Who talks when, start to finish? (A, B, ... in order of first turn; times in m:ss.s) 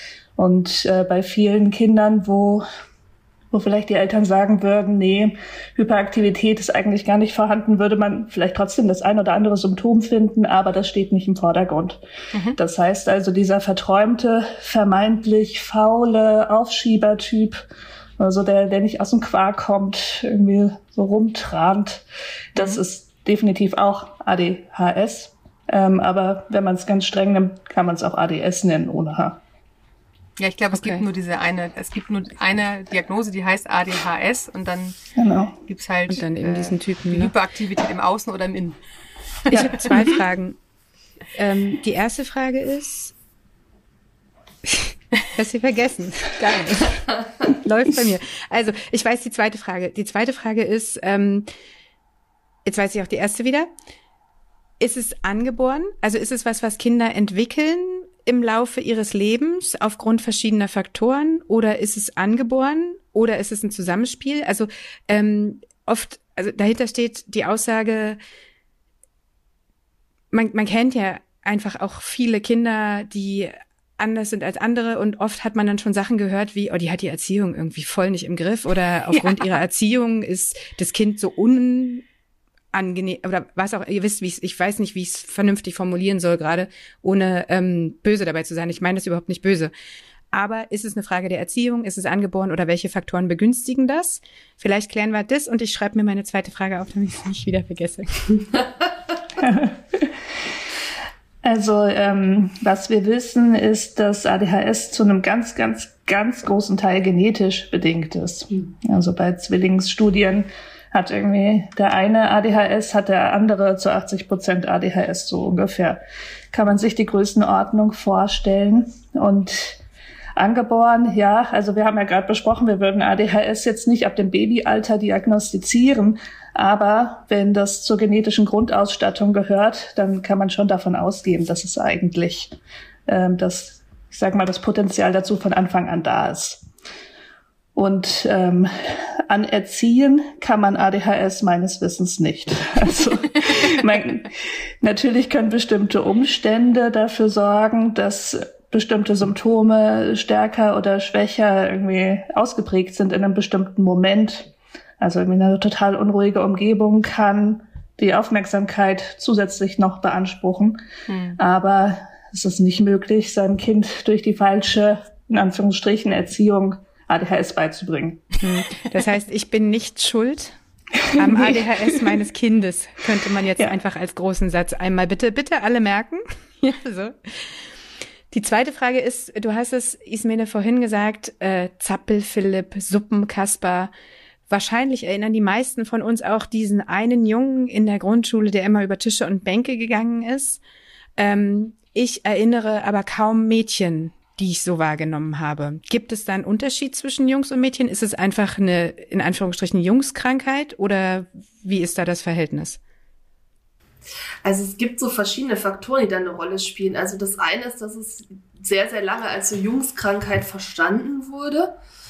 0:00.4-0:02.6 A
0:03.5-0:12.0 A
0:12.3-0:12.6 B
0:12.6-0:17.6 A
0:18.2-0:29.4 A
0:22.6-0:22.8 B
0:30.4-0:35.0 B
0:30.7-0:31.0 C
0:35.2-0:35.6 A
0:35.7-0:38.8 B
0:36.1-0:37.3 C
0:39.4-0:40.1 B
0:39.5-0:40.6 C
0:41.3-0:43.1 C
0:44.6-0:51.5 C
0:52.6-0:53.7 C
0:54.8-1:08.2 C
1:10.3-1:22.0 C
1:22.7-1:29.7 C
1:30.3-1:38.4 C
1:39.4-1:40.2 A
1:41.4-1:56.0 A
1:56.5-1:59.8 A
2:00.4-2:12.5 A
2:13.0-2:16.6 A
2:17.7-2:40.8 A
2:41.1-2:41.4 B
2:41.4-2:48.2 A
2:48.4-2:50.6 C
2:51.0-2:52.1 A
2:51.1-2:57.5 C
2:58.3-3:03.9 C
3:04.5-3:10.6 C
3:11.2-3:22.8 C
3:24.4-3:31.8 D